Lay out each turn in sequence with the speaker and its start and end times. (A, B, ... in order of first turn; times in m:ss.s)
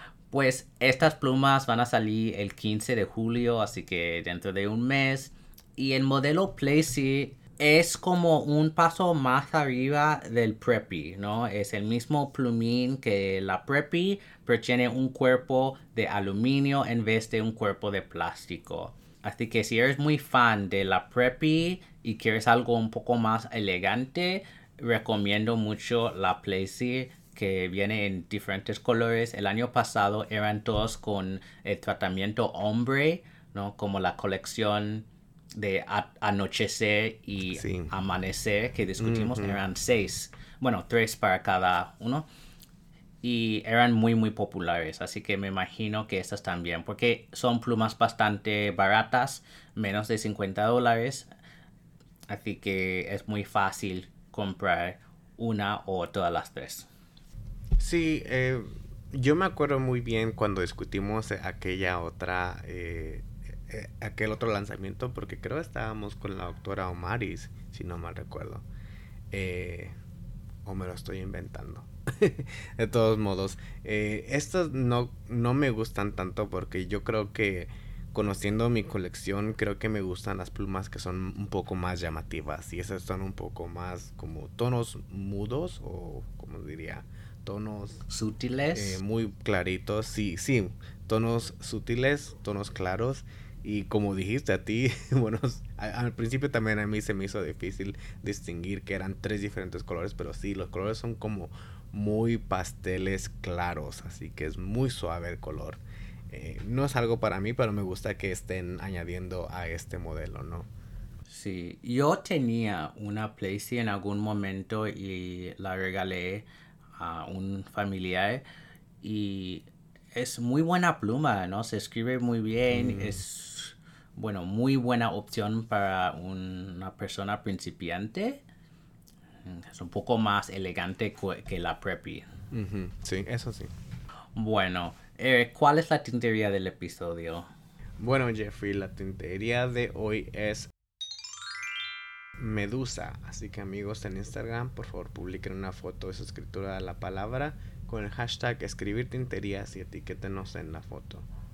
0:00.3-0:42.3 A
0:37.6-0:37.9 B
0:39.0-0:39.6 B
0:43.2-0:51.3 A
0:52.3-0:56.9 A
0:57.8-1:08.6 B
1:09.3-1:10.0 B
1:10.6-1:28.1 B
1:28.1-1:29.0 A
1:28.7-1:50.7 B
1:51.3-1:56.5 A
1:57.0-1:58.4 A
1:59.0-2:08.4 A
2:02.7-2:03.2 B
2:09.4-2:12.2 A
2:12.5-2:13.7 B
2:14.4-2:17.5 A
2:18.0-2:20.7 B
2:22.4-2:31.2 B